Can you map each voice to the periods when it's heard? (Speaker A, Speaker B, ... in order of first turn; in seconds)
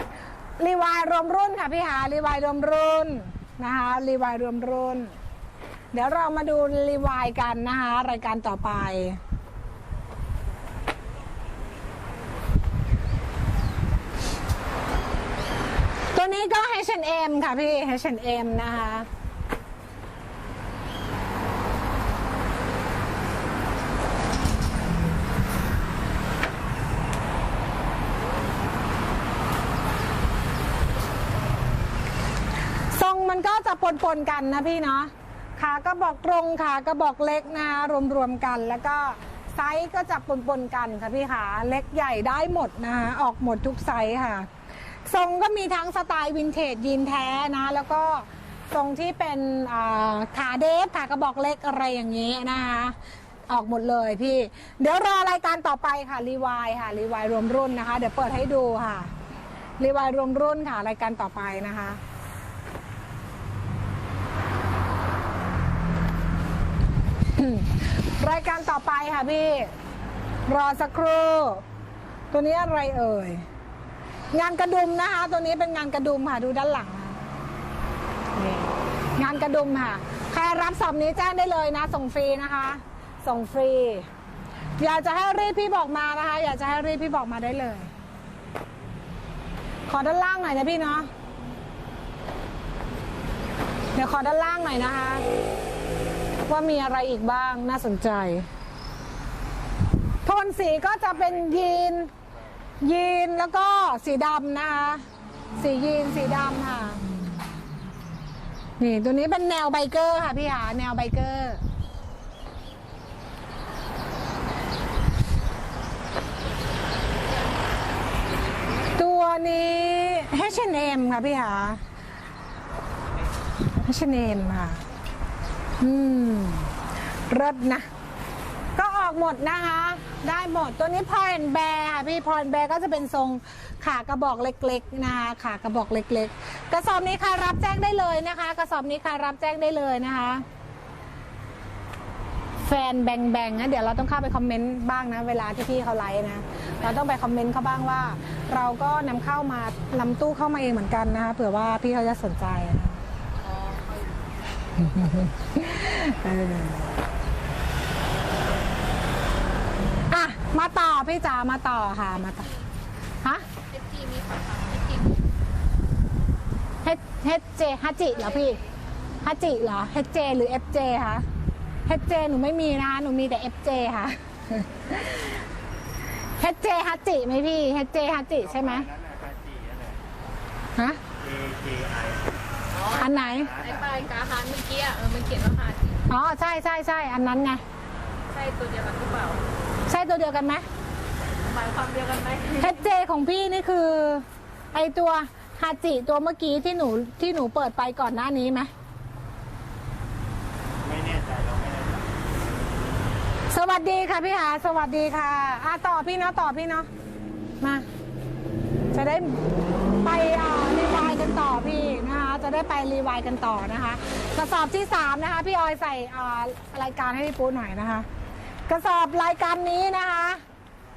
Speaker A: 0.6-5.1, 5.9-9.2, 16.1-19.1, 32.9-44.5, 45.0-53.0, 53.5-59.1, 59.8-62.0, 67.3-69.7, 70.5-71.6, 72.3-73.4, 74.3-77.2, 78.3-84.1, 84.8-87.9, 89.9-91.1, 93.9-95.2, 96.5-98.5, 100.2-102.1, 102.8-105.0, 105.6-107.0, 108.8-111.6, 118.9-121.8, 123.7-124.8, 125.8-126.7, 127.3-127.9, 128.8-140.4, 142.6-153.0, 154.8-156.9, 160.1-162.5, 163.2-163.5, 166.8-168.6, 169.2-171.2, 171.9-175.4, 176.4-178.9, 182.9-183.5, 186.1-187.6, 189.9-190.7, 192.6-198.7, 203.5-206.9, 207.6-207.8, 208.9-209.4, 210.0-218.1, 218.7-220.4
Speaker B: 153.4-154.2, 163.6-165.3, 183.6-186.0, 188.3-189.4, 191.4-192.7
Speaker C: 178.4-180.0, 181.1-183.9, 200.8-202.1